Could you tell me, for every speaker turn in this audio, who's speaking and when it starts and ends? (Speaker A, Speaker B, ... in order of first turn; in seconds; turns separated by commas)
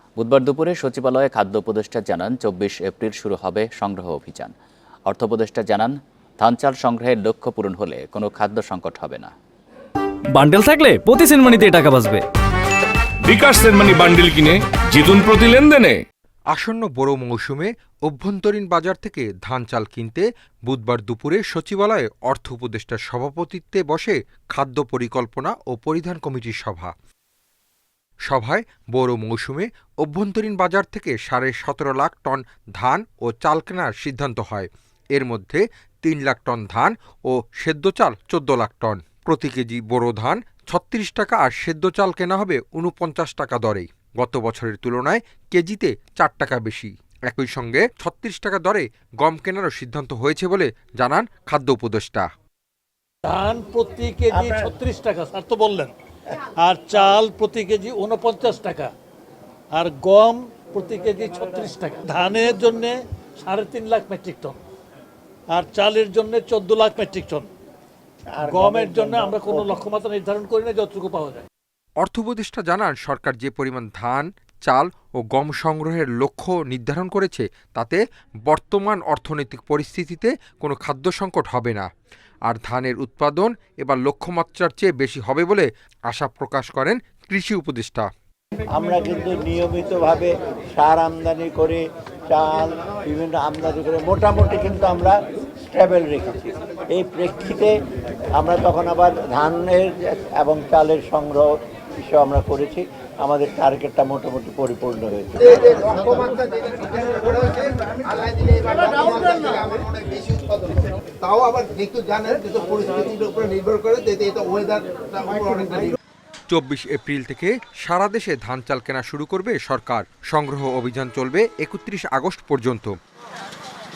Speaker A: 0.2-4.5, Speaker A: 5.1-9.3, Speaker B: 10.3-12.2, Speaker C: 13.2-16.0, Speaker D: 16.5-26.9, Speaker D: 28.3-52.3, Speaker E: 53.2-55.9, Speaker E: 56.6-58.9, Speaker E: 59.7-64.6, Speaker E: 65.5-67.5, Speaker F: 68.3-69.8, Speaker E: 68.5-71.5, Speaker D: 72.0-81.9, Speaker D: 82.5-88.1, Speaker F: 88.7-95.2, Speaker F: 95.7-97.7, Speaker F: 98.4-101.5, Speaker F: 102.0-105.9, Speaker G: 105.5-116.0, Speaker D: 116.5-122.9